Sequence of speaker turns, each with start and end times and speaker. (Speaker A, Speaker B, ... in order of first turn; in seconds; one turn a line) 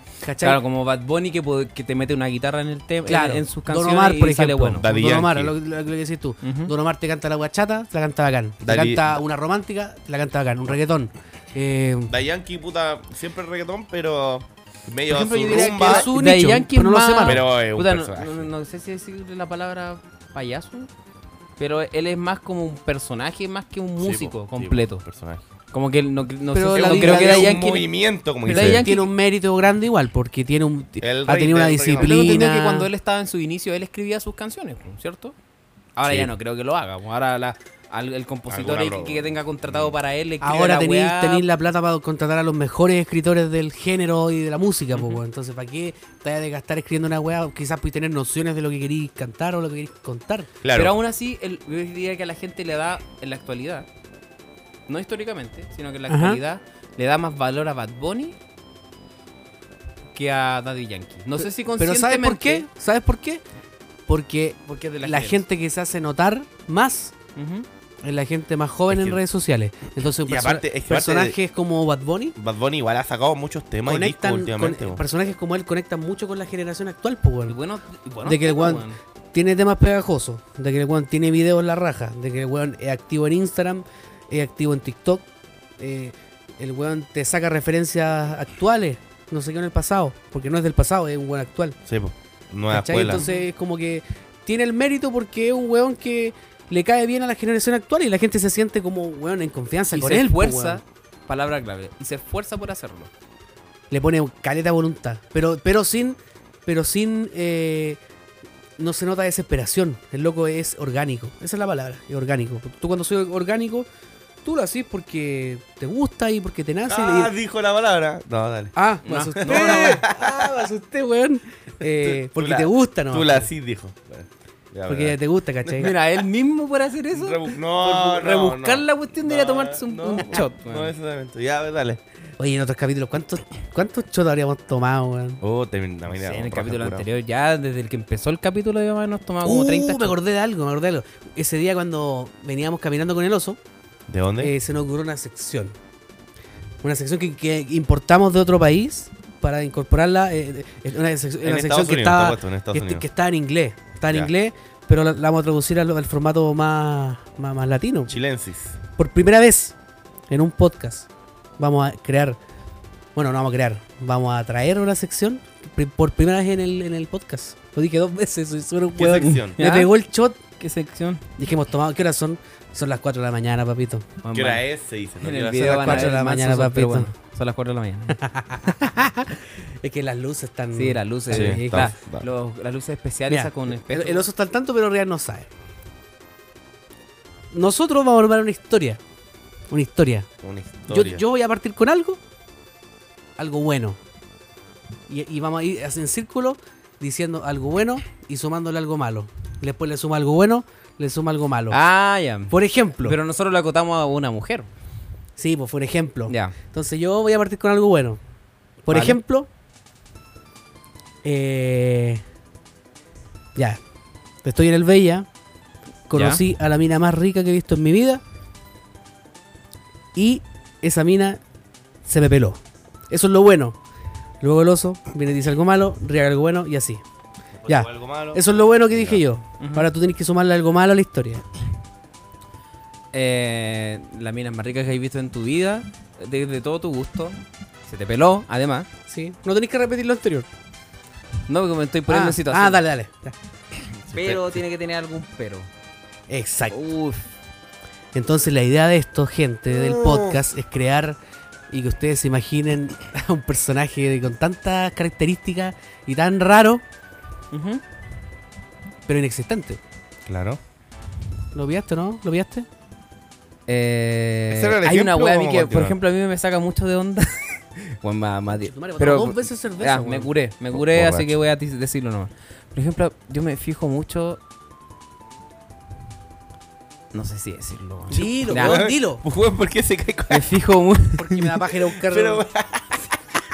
Speaker A: 0.2-0.6
Speaker B: 0.4-4.8
Speaker A: 3.1-12.1
Speaker C: 4.8-5.5
Speaker B: 6.4-6.7
Speaker C: 8.6-9.2
Speaker C: 12.1-16.1
Speaker A: 15.1-17.4
Speaker B: 15.8-20.9
Speaker C: 17.2-18.5
Speaker B: 21.6-25.0
Speaker C: 24.0-25.4
Speaker B: 25.7-27.9
Speaker A: 26.5-27.6
Speaker C: 26.7-28.9
Speaker B: 28.4-29.1
Speaker A: 28.5-32.9
Speaker C: 31.0-32.4
Speaker B: 32.0-35.3
Speaker B: 36.0-41.4
Speaker C: 36.0-36.3
Speaker C: 38.5-39.9
Speaker A: 40.4-50.5
Speaker B: 44.9-45.2
Speaker C: 50.6-51.0
Speaker B: 50.7-53.9
Speaker B: 54.9-58.4
Speaker A: 56.1-56.4
Speaker B: 60.1-62.6
Speaker A: 61.4-63.4
Speaker A: 64.1-67.1
Speaker B: 64.7-65.4
Speaker B: 67.3-67.7
Speaker A: 68.0-72.3
Speaker C: 68.9-69.2
Speaker C: 70.2-71.4
Speaker C: 72.3-75.0
Speaker A: 73.8-77.5
Speaker B: 77.5-79.0
Speaker A: 78.2-85.2
Speaker A: 85.8-91.8
Speaker C: 91.9-93.2
Speaker A: 92.7-100.8
Speaker B: 93.1-93.4
Speaker B: 99.9-103.1
Speaker A: 103.9-108.0
Speaker A: 108.8-113.8
Speaker A: 114.4-117.3
Speaker C: 116.9-118.7
Speaker A: 118.8-123.5
Speaker B: 119.0-120.0
Speaker C: 119.4-120.5
Speaker C: 122.0-125.2
Speaker A: 124.9-125.9
Speaker B: 125.7-130.9
Speaker C: 127.1-132.0
Speaker A: 132.4-135.4
Speaker C: 135.4-137.1
Speaker B: 136.1-140.1
Speaker A: 139.4-143.6
Speaker C: 144.1-144.5
Speaker A: 144.4-145.7
Speaker A: 146.8-158.2
Speaker C: 151.4-153.0
Speaker C: 158.1-158.8
Speaker A: 159.0-159.7
Speaker A: 160.3-161.1
Speaker A: 161.6-162.4
Speaker A: 163.1-170.4
Speaker C: 168.9-169.6
Speaker B: 169.5-169.9
Speaker B: 170.6-171.2
Speaker A: 171.4-174.1
Speaker B: 174.2-174.6
Speaker C: 174.3-176.1
Speaker B: 175.2-178.2
Speaker A: 175.5-177.1
Speaker A: 178.2-181.9
Speaker B: 180.7-184.2
Speaker C: 181.3-182.2
Speaker A: 183.3-185.5
Speaker A: 187.5-189.0
Speaker A: 189.7-190.3
Speaker C: 190.4-191.2
Speaker A: 190.9-192.2
Speaker A: 193.4-194.0
Speaker A: 195.1-201.8
Speaker B: 201.7-204.7
Speaker A: 202.5-203.2
Speaker A: 205.4-208.2
Speaker B: 206.3-206.5
Speaker A: 208.8-209.5
Speaker B: 208.9-209.2
Speaker A: 211.2-212.2
Speaker A: 214.4-215.2
Speaker A: 216.1-218.2
Speaker B: 216.1-216.4
Speaker A: 220.1-221.4
Speaker A: 222.0-223.8
Speaker A: 224.4-227.0
Speaker C: 227.6-229.2
Speaker A: 227.7-231.4
Speaker B: 229.6-229.9
Speaker B: 233.1-238.9
Speaker A: 239.1-240.5
Speaker B: 241.5-242.8
Speaker A: 242.1-243.3
Speaker C: 244.1-244.5
Speaker B: 244.1-245.7
Speaker A: 246.3-246.8
Speaker B: 246.7-247.3
Speaker A: 248.1-251.2
Speaker C: 249.7-250.4
Speaker A: 251.7-256.8
Speaker B: 257.5-257.8
Speaker A: 259.1-259.8
Speaker C: 260.2-260.6
Speaker A: 261.5-262.6
Speaker B: 263.7-274.4
Speaker C: 264.5-265.9
Speaker A: 268.5-270.3
Speaker C: 270.7-271.3
Speaker B: 277.1-278.8
Speaker A: 278.1-279.2
Speaker C: 278.1-280.5
Speaker B: 280.3-281.5
Speaker A: 281.1-282.5
Speaker C: 282.0-283.2